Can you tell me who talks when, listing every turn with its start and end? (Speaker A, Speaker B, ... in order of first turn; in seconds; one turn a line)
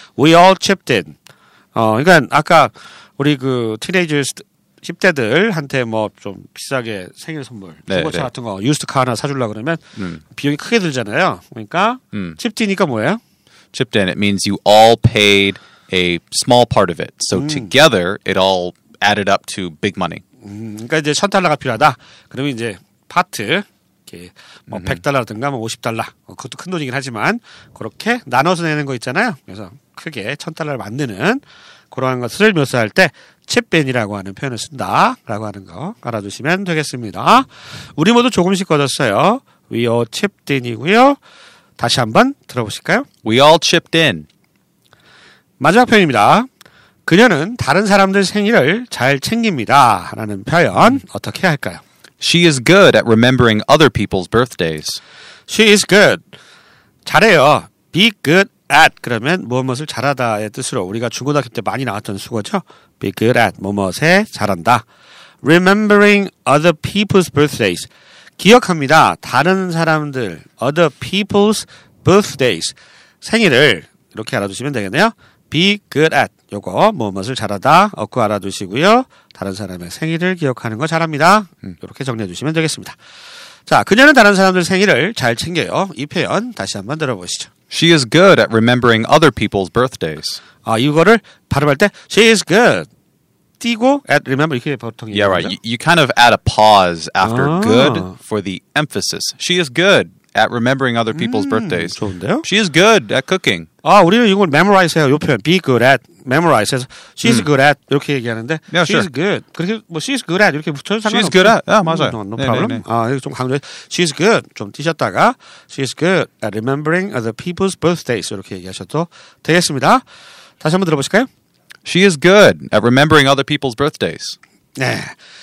Speaker A: 0.2-1.2
Speaker A: 1.8-13.2
Speaker B: 7.9-8.3
Speaker B: 10.0-10.2
Speaker B: 12.1-12.4
Speaker B: 13.7-20.2
Speaker A: 17.3-17.7
Speaker A: 20.4-41.2
Speaker A: 41.8-43.1
Speaker B: 43.2-44.3
Speaker A: 45.6-46.5
Speaker A: 47.1-51.8
Speaker B: 52.2-55.0
Speaker A: 55.5-56.2
Speaker A: 57.0-64.8
Speaker A: 65.4-83.0
Speaker A: 83.7-87.5
Speaker B: 87.7-90.4
Speaker A: 90.6-92.9
Speaker A: 93.6-95.6
Speaker B: 95.1-103.7
Speaker A: 97.2-98.2
Speaker A: 101.1-102.5
Speaker A: 103.8-120.0
Speaker B: 108.7-109.1
Speaker B: 111.1-112.8
Speaker A: 120.6-121.3
Speaker B: 121.8-124.4
Speaker A: 124.8-125.2